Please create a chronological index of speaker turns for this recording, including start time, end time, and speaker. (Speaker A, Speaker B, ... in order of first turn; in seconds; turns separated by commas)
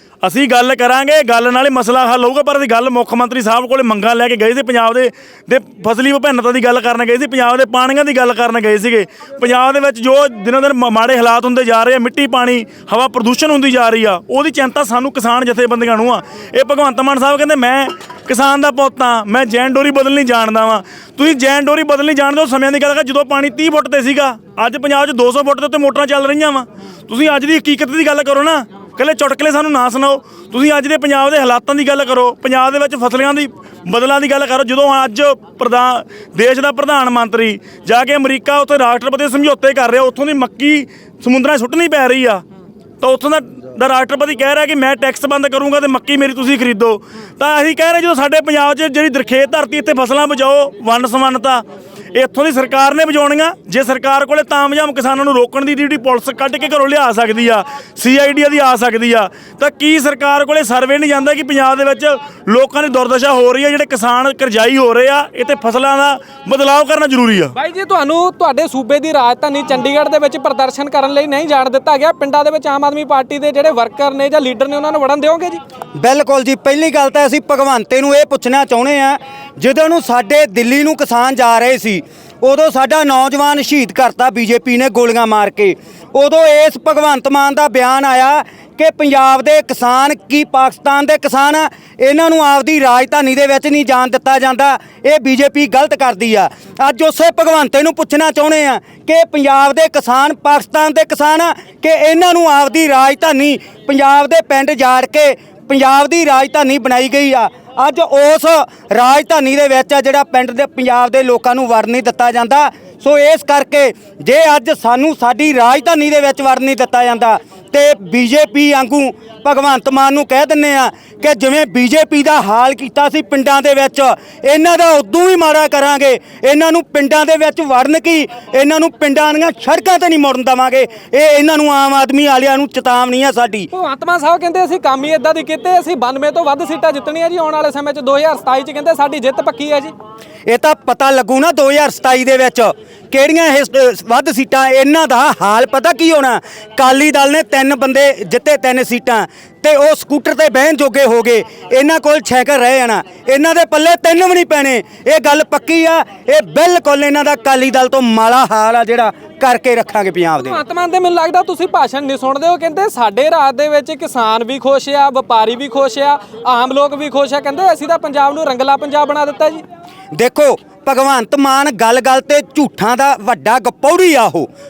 Speaker A: 0.2-42.4, Speaker A: 43.0-67.5, Speaker B: 67.5-75.6, Speaker C: 76.0-133.7, Speaker B: 133.7-139.9, Speaker C: 140.5-160.6, Speaker B: 160.4-169.6, Speaker C: 170.1-174.5